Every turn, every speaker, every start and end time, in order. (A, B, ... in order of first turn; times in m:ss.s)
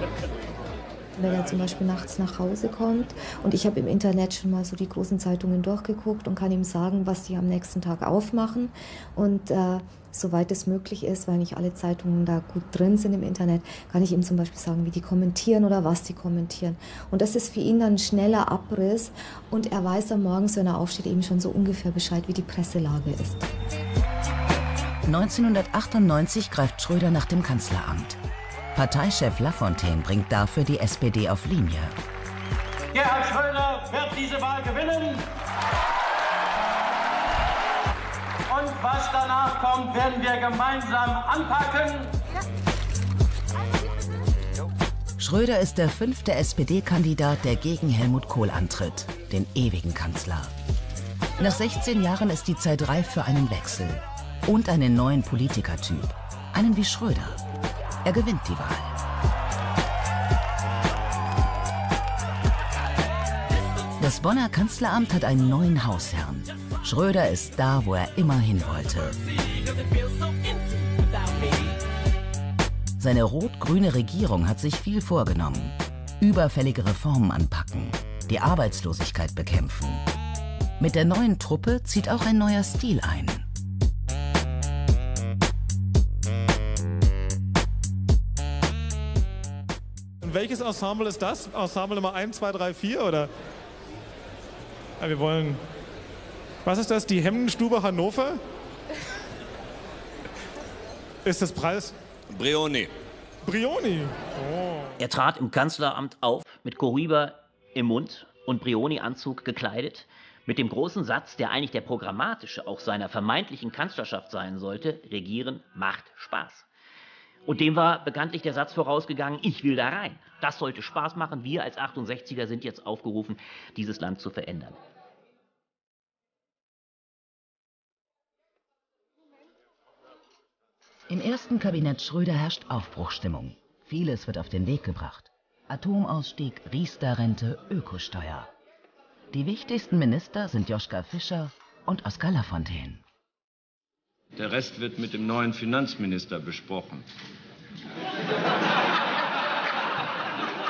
0:01.2-0:23.4 A
0:25.0-0:28.2 B
0:28.7-0:32.0 B
0:32.9-0:35.2 C
0:38.5-0:42.1 C
0:45.2-0:50.5 B
0:51.4-0:57.4 B
0:58.0-0:59.0 B
1:04.0-1:09.2 B
1:13.0-1:20.0 B
1:20.8-1:23.4 B
1:30.2-1:33.3 D
1:35.0-1:35.6 D
1:36.6-1:38.4 D
1:41.2-1:41.9 D
1:42.4-1:42.9 E
1:43.4-1:44.9 D
1:45.0-1:56.7 F
1:57.4-2:04.8 F
2:11.1-2:18.5 B
2:19.3-2:23.0 B
2:24.4-2:27.0 E